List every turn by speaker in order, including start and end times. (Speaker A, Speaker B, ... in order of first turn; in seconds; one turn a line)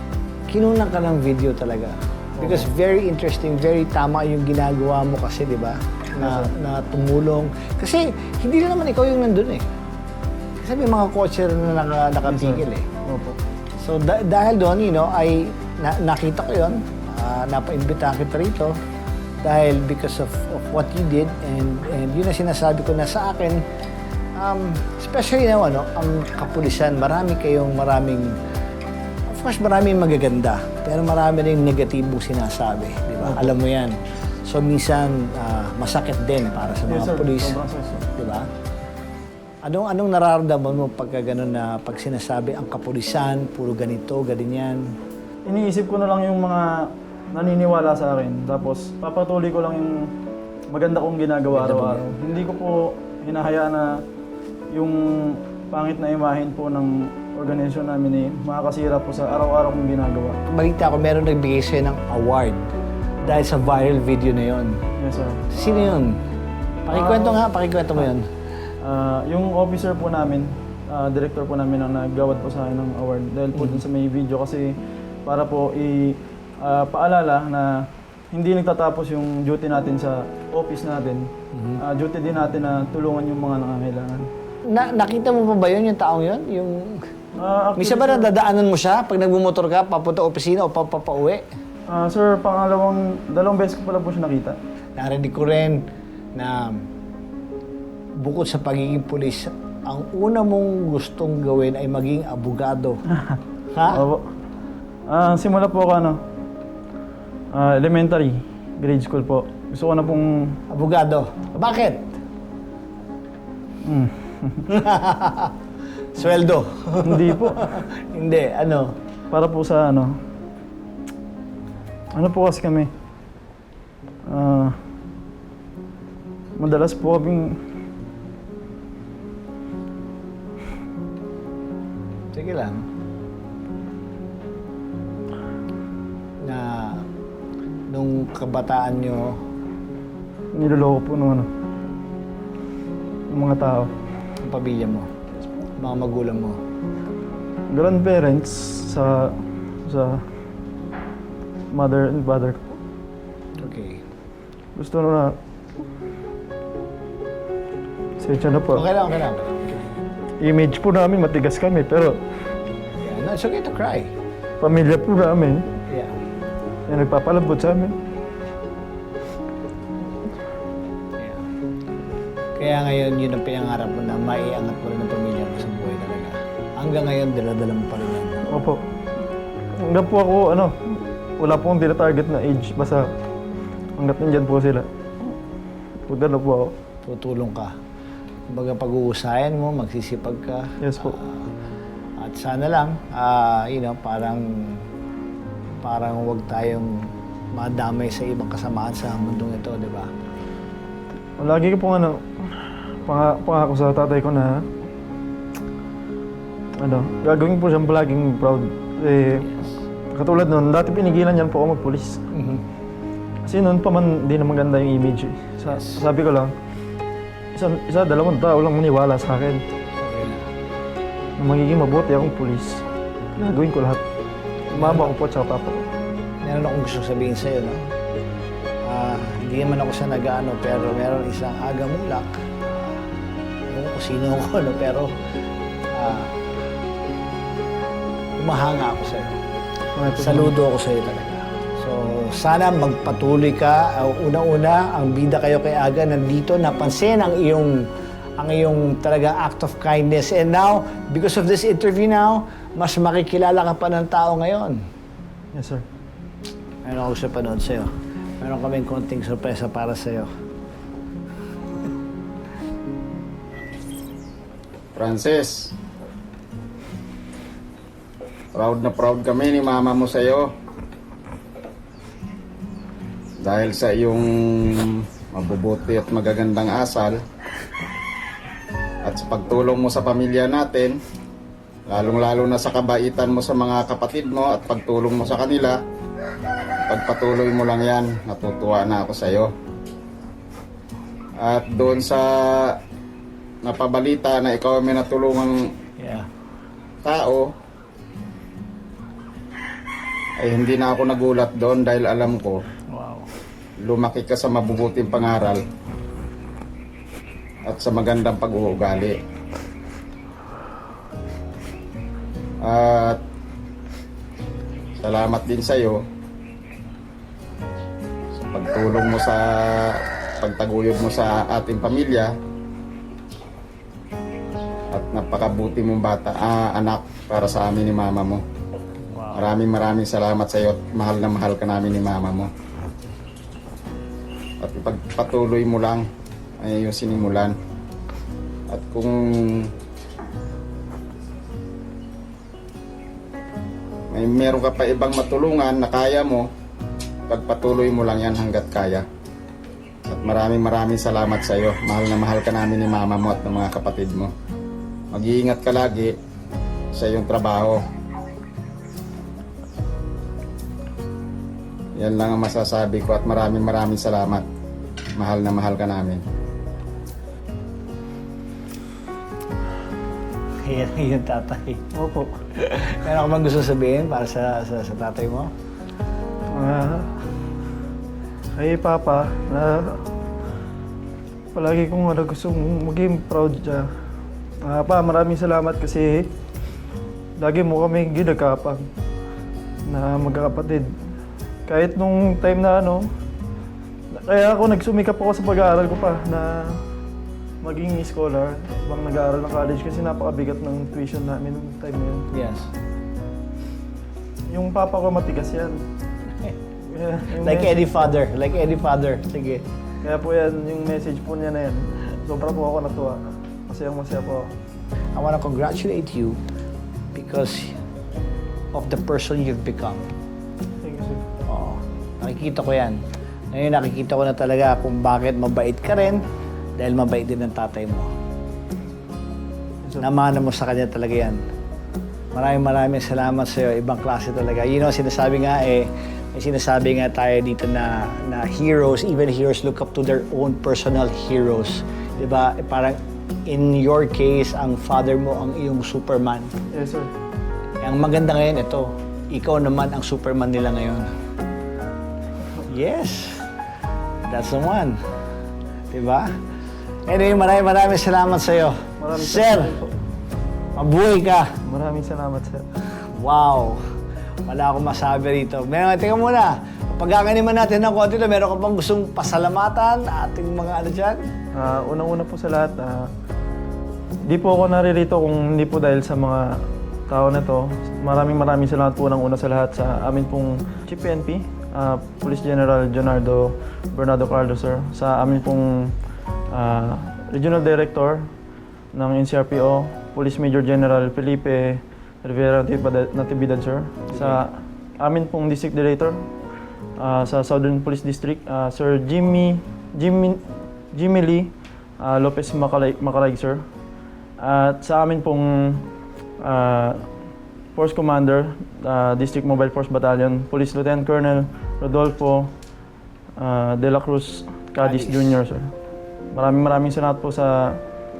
Speaker A: 0.5-9.6
Speaker B: 2.4-2.6
Speaker B: 6.2-6.5
Speaker A: 10.6-12.8
Speaker B: 12.3-13.4
Speaker A: 13.8-18.7
Speaker A: 19.4-23.6
Speaker A: 24.4-28.3
Speaker A: 29.3-38.5
Speaker B: 33.2-33.5
Speaker B: 36.9-38.0
Speaker A: 39.6-44.9
Speaker B: 45.5-50.1
Speaker B: 50.7-53.9
Speaker A: 51.5-52.0
Speaker B: 54.7-60.4
Speaker A: 60.5-62.7
Speaker A: 63.2-64.8
Speaker B: 65.0-65.4
Speaker A: 65.5-66.1
Speaker A: 66.8-68.2
Speaker B: 66.9-67.4
Speaker B: 68.8-74.7
Speaker A: 73.5-73.8
Speaker B: 75.2-77.7
Speaker B: 78.3-81.3
Speaker A: 81.5-81.8
Speaker B: 81.8-84.3
Speaker A: 84.7-87.0
Speaker B: 87.4-88.3
Speaker A: 87.8-91.4
Speaker B: 91.9-94.6
Speaker A: 95.0-95.8
Speaker A: 96.3-96.7
Speaker A: 98.2-103.0
Speaker A: 103.7-104.0
Speaker B: 103.9-104.2
Speaker B: 105.1-106.2
Speaker B: 107.5-110.5
Speaker A: 110.7-112.1
Speaker B: 113.8-114.7
Speaker A: 114.7-115.5
Speaker A: 116.1-118.9
Speaker B: 117.0-117.7
Speaker B: 119.3-120.1
Speaker B: 122.1-122.9
Speaker B: 124.3-124.7
Speaker B: 126.6-127.6
Speaker A: 132.3-132.8
Speaker A: 136.4-137.0
Speaker A: 137.9-139.3
Speaker B: 140.5-141.5
Speaker B: 143.3-143.9
Speaker A: 144.4-145.1
Speaker A: 145.8-146.6
Speaker B: 147.7-150.2
Speaker B: 151.7-152.6
Speaker A: 153.6-154.0
Speaker B: 154.8-155.3
Speaker B: 158.2-158.8
Speaker A: 158.7-159.8
Speaker B: 160.4-162.2
Speaker A: 163.0-164.1
Speaker B: 164.6-165.6
Speaker B: 166.9-167.9
Speaker A: 172.6-178.4
Speaker B: 178.5-178.8
Speaker B: 179.8-183.1
Speaker B: 184.0-184.8
Speaker B: 186.1-186.7
Speaker A: 187.1-187.7
Speaker A: 188.5-191.4
Speaker B: 190.8-191.1
Speaker A: 192.2-194.8
Speaker A: 195.8-196.9
Speaker A: 197.6-200.1
Speaker B: 201.4-202.2
Speaker B: 203.0-204.6
Speaker B: 206.8-209.5
Speaker B: 210.1-212.2
Speaker A: 212.3-212.6
Speaker B: 213.4-216.5
Speaker A: 215.7-216.0
Speaker B: 217.5-219.6
Speaker A: 220.0-220.4
Speaker B: 221.4-222.8
Speaker B: 223.3-224.0
Speaker A: 224.7-225.2
Speaker B: 224.7-225.8
Speaker A: 226.4-227.8
Speaker A: 228.8-232.9
Speaker A: 233.7-235.1
Speaker A: 235.9-236.3
Speaker A: 238.4-239.4
Speaker B: 239.9-240.5
Speaker A: 240.2-247.7
Speaker A: 248.4-254.8
Speaker B: 255.5-255.8
Speaker A: 256.8-257.9
Speaker A: 258.4-260.3
Speaker C: 264.9-265.7
Speaker C: 268.5-270.5
Speaker C: 273.4-277.2
Speaker C: 279.1-280.9
Speaker C: 281.9-285.8
Speaker C: 286.9-289.5
Speaker C: 291.4-292.8
Speaker C: 293.6-295.6
Speaker A: 296.0-296.2
Speaker C: 297.0-297.4
Speaker C: 300.4-302.6
Speaker A: 302.9-303.2
Speaker C: 303.9-305.6
Speaker C: 307.6-309.1
Speaker C: 312.6-313.2
Speaker C: 315.0-316.0
Speaker C: 318.4-322.3
Speaker C: 324.9-328.4
Speaker C: 329.3-332.5
Speaker C: 334.6-336.0
Speaker C: 336.6-337.5
Speaker C: 338.7-339.7
Speaker C: 344.1-346.4
Speaker C: 347.3-349.0
Speaker C: 350.1-354.3
Speaker C: 355.1-356.1
Speaker C: 356.9-357.8
Speaker C: 361.9-364.4
Speaker C: 365.2-366.2
Speaker A: 370.6-371.8
Speaker B: 371.9-372.3
Speaker A: 372.7-375.5
Speaker B: 376.5-377.1
Speaker B: 378.6-380.0
Speaker B: 381.5-383.9
Speaker B: 384.6-386.3
Speaker B: 387.4-388.8
Speaker B: 389.9-390.9
Speaker B: 391.7-393.1
Speaker B: 394.1-396.8
Speaker B: 397.6-402.2
Speaker A: 402.3-402.7
Speaker B: 404.5-405.8
Speaker B: 406.9-408.1
Speaker A: 407.4-409.6
Speaker B: 410.0-414.5
Speaker A: 415.1-416.4
Speaker A: 417.1-417.8
Speaker A: 418.7-420.1
Speaker B: 420.8-421.2
Speaker A: 421.5-423.0
Speaker A: 423.5-426.2
Speaker A: 426.8-428.1
Speaker A: 430.0-431.4
Speaker A: 432.3-446.5
Speaker B: 446.7-447.1
Speaker A: 447.8-451.1
Speaker A: 452.7-453.5
Speaker A: 454.3-454.9
Speaker A: 455.9-456.3
Speaker A: 457.1-459.7
Speaker B: 459.0-459.9
Speaker A: 460.8-461.5
Speaker B: 461.6-462.6
Speaker A: 463.1-463.8
Speaker A: 464.4-471.2
Speaker B: 471.5-473.1
Speaker B: 474.3-476.5
Speaker B: 477.1-485.9
Speaker B: 486.5-488.3
Speaker B: 488.9-496.2
Speaker A: 494.1-494.4
Speaker B: 497.0-500.4
Speaker B: 500.9-503.6
Speaker B: 504.4-505.8
Speaker B: 506.4-507.0
Speaker B: 507.7-512.5
Speaker B: 513.4-515.7
Speaker A: 514.8-515.4
Speaker B: 516.3-517.8